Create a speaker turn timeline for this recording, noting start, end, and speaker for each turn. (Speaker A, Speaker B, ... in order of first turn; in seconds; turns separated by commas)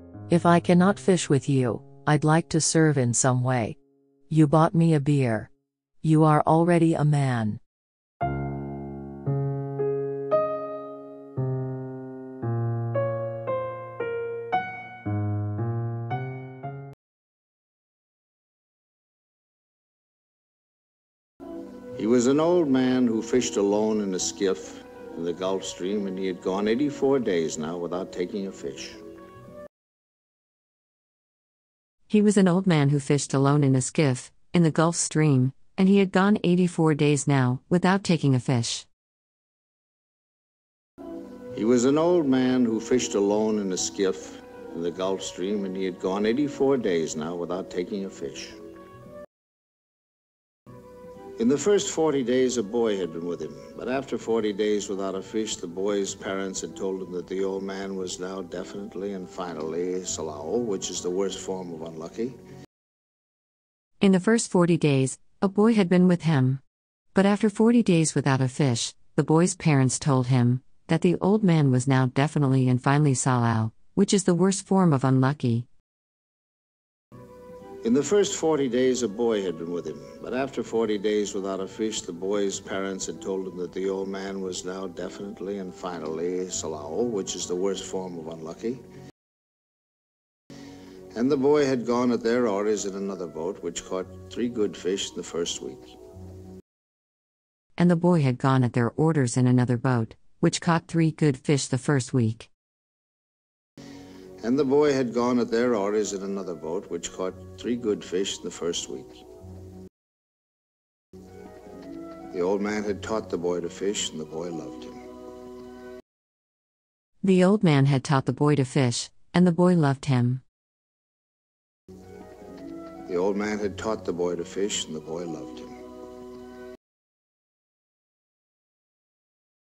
Speaker A: 0.3-3.8, Speaker A: 4.3-5.5, Speaker A: 6.0-7.6, Speaker B: 22.0-29.0, Speaker C: 32.1-38.9, Speaker B: 41.5-48.6, Speaker B: 51.4-62.4, Speaker C: 64.0-66.6, Speaker C: 67.2-75.7, Speaker B: 77.8-88.8, Speaker B: 91.1-96.0, Speaker C: 97.8-102.5, Speaker B: 104.4-109.2, Speaker B: 112.3-115.0, Speaker C: 117.2-120.4, Speaker B: 123.1-125.7